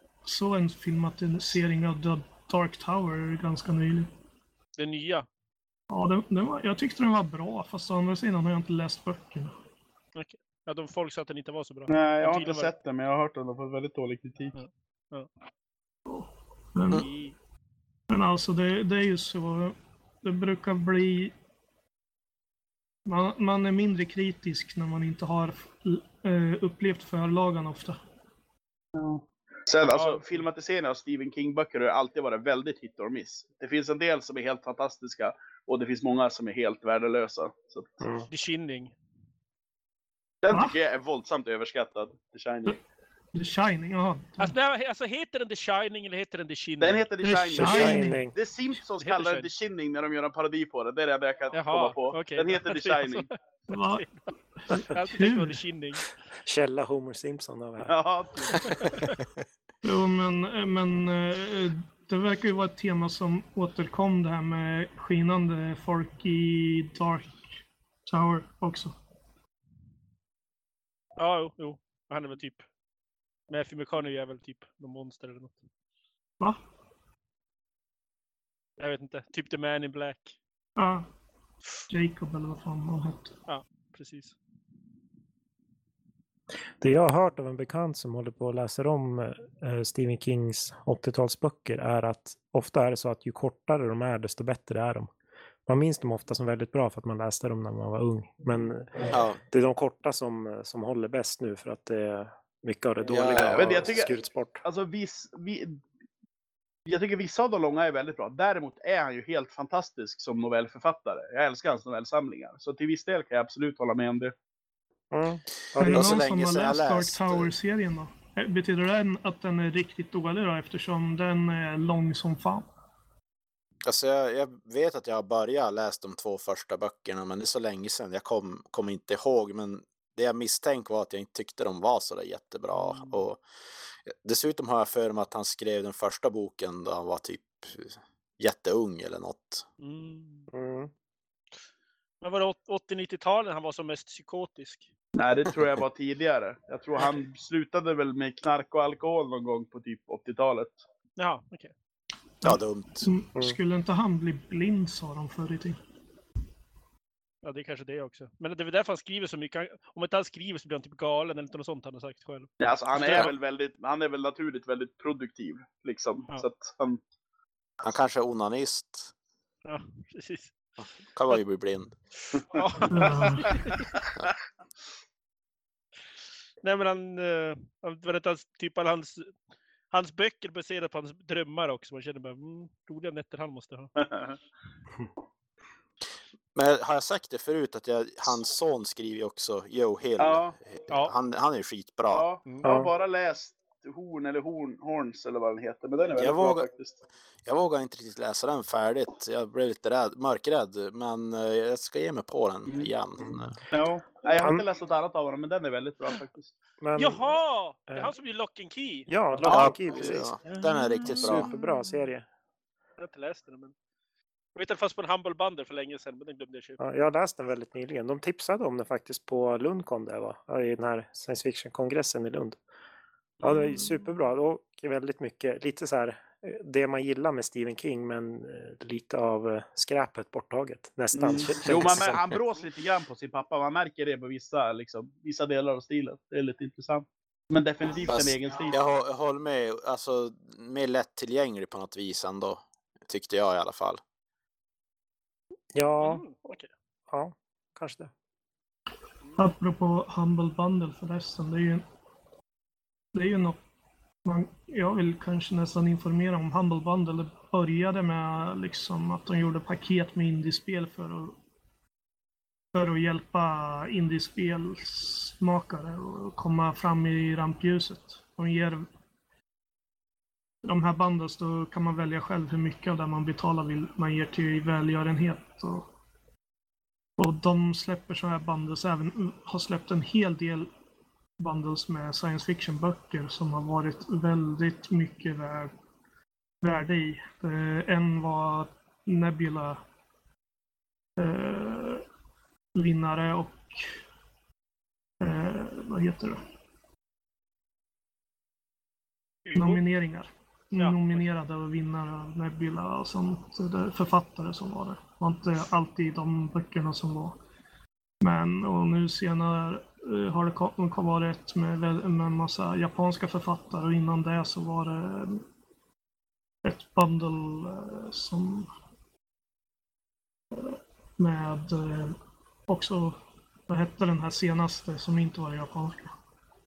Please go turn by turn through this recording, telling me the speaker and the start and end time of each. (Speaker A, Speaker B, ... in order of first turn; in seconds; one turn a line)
Speaker A: 0.2-4.1
Speaker B: 4.8-5.3
Speaker A: 5.9-9.6
Speaker B: 10.2-12.7
Speaker C: 11.9-14.6
Speaker B: 14.6-15.3
Speaker A: 16.1-17.1
Speaker B: 16.9-17.4
Speaker A: 18.1-21.3
Speaker A: 23.1-28.0
Speaker C: 29.0-38.0
Speaker B: 29.9-30.2
Speaker D: 38.0-38.3
Speaker B: 38.3-38.9
Speaker C: 40.4-42.8
Speaker A: 43.3-44.5
Speaker B: 44.4-47.1
Speaker C: 46.8-53.3
Speaker A: 47.2-48.2
Speaker D: 47.5-48.3
Speaker B: 49.0-49.5
Speaker B: 51.5-53.3
Speaker A: 53.7-55.6
Speaker B: 53.9-56.1
Speaker D: 56.5-58.0
Speaker C: 57.9-58.7
Speaker B: 58.6-59.1
Speaker A: 59.8-69.0
Speaker B: 71.2-72.6
Speaker B: 73.5-75.6
Speaker B: 78.8-80.4
Speaker A: 80.8-81.1
Speaker A: 81.9-83.3
Speaker B: 83.5-84.4
Speaker D: 86.8-95.1
Speaker D: 95.7-104.6
Speaker E: 99.1-99.4
Speaker E: 103.1-103.9
Speaker C: 103.4-104.1
Speaker C: 104.6-105.8
Speaker C: 106.9-114.3
Speaker D: 115.1-116.2
Speaker E: 115.8-117.5
Speaker A: 115.8-122.7
Speaker E: 123.8-133.4
Speaker B: 132.8-133.2
Speaker E: 134.1-139.7
Speaker B: 139.8-140.5
Speaker D: 140.5-140.9
Speaker B: 142.2-144.9
Speaker C: 145.2-150.8
Speaker B: 151.2-151.7
Speaker A: 152.4-155.8
Speaker E: 152.4-153.1
Speaker B: 157.4-163.3
Speaker C: 162.6-167.0
Speaker E: 167.8-169.1
Speaker B: 169.7-170.6
Speaker E: 170.8-171.9
Speaker B: 172.3-173.9
Speaker A: 172.9-173.6
Speaker B: 176.6-179.3
Speaker B: 179.9-183.9
Speaker C: 184.0-184.4
Speaker E: 186.6-192.3
Speaker C: 190.2-190.6
Speaker C: 192.1-197.0
Speaker D: 192.6-192.9
Speaker E: 196.2-196.7
Speaker E: 197.5-203.6
Speaker C: 202.7-206.5
Speaker D: 204.4-204.7
Speaker D: 206.8-207.3
Speaker B: 207.0-209.1
Speaker D: 207.9-208.1
Speaker D: 209.1-210.3
Speaker C: 209.4-210.6
Speaker E: 209.5-211.5
Speaker D: 211.0-212.3
Speaker B: 213.0-213.7
Speaker B: 214.6-216.8
Speaker D: 216.8-222.6
Speaker D: 223.4-232.4
Speaker C: 231.2-238.8
Speaker E: 231.6-232.4
Speaker E: 238.1-244.0
Speaker D: 245.7-246.2
Speaker B: 246.0-246.7
Speaker D: 247.1-248.1
Speaker A: 249.4-251.8
Speaker A: 253.1-253.6
Speaker A: 254.2-261.4
Speaker A: 262.7-268.9
Speaker A: 270.6-275.9
Speaker A: 277.2-280.7
Speaker A: 281.4-285.7
Speaker A: 286.6-289.8
Speaker A: 291.2-292.0
Speaker A: 292.8-293.9
Speaker A: 295.2-296.4
Speaker B: 299.4-299.8
Speaker A: 299.6-307.4
Speaker B: 300.8-301.3
Speaker A: 308.2-315.4
Speaker A: 316.6-318.7
Speaker A: 320.5-322.2
Speaker A: 322.7-326.2